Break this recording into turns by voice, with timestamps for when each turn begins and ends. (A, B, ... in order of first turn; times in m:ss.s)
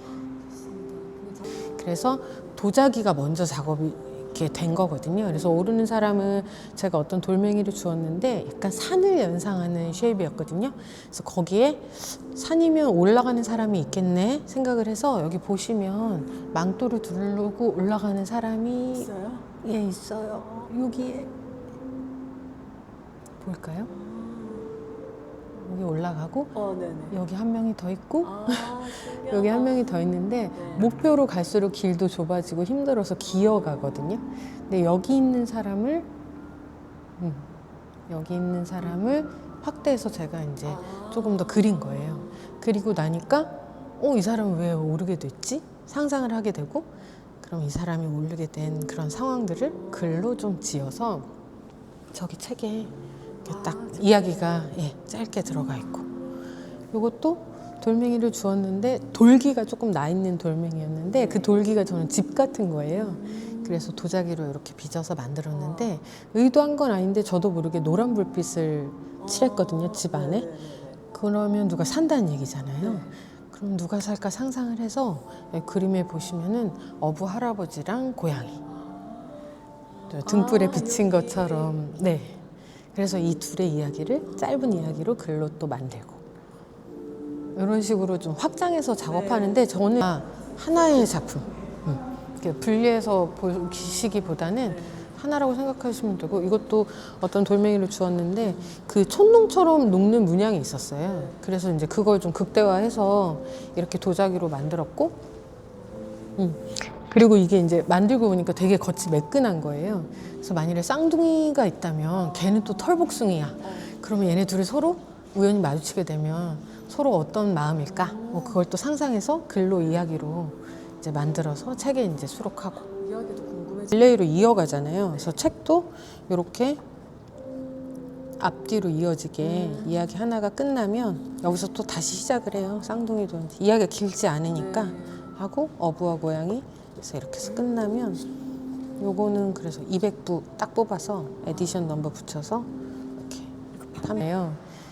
0:00.6-0:01.4 A
0:01.6-0:19.1 B
0:19.1-0:19.5 A
0:19.6-0:21.3 B
0:23.4-0:23.9 B
0:23.9-0:24.7 A
0:25.6-0:36.1 B
0:26.6-0:27.2 A
0:28.2-0:29.8 A
0:37.2-0:37.5 B
0:38.1-0:46.9 B
0:40.8-0:41.5 A
0:47.4-0:51.3 B
0:52.1-0:56.1 B
0:53.5-0:54.5 A
0:56.9-1:10.5 B
1:05.5-1:05.9 A
1:09.2-1:11.0 A
1:11.1-1:18.6 B
1:18.9-1:19.2 A
1:20.1-1:21.8 A
1:20.1-1:22.4 B
1:22.9-1:26.2 B
1:27.6-1:45.2 B
1:46.4-2:03.0 B
2:02.9-2:04.0 A
2:03.9-2:06.8 B
2:08.4-2:18.3 B
2:09.6-2:09.9 A
2:14.8-2:15.2 A
2:19.0-2:24.6 B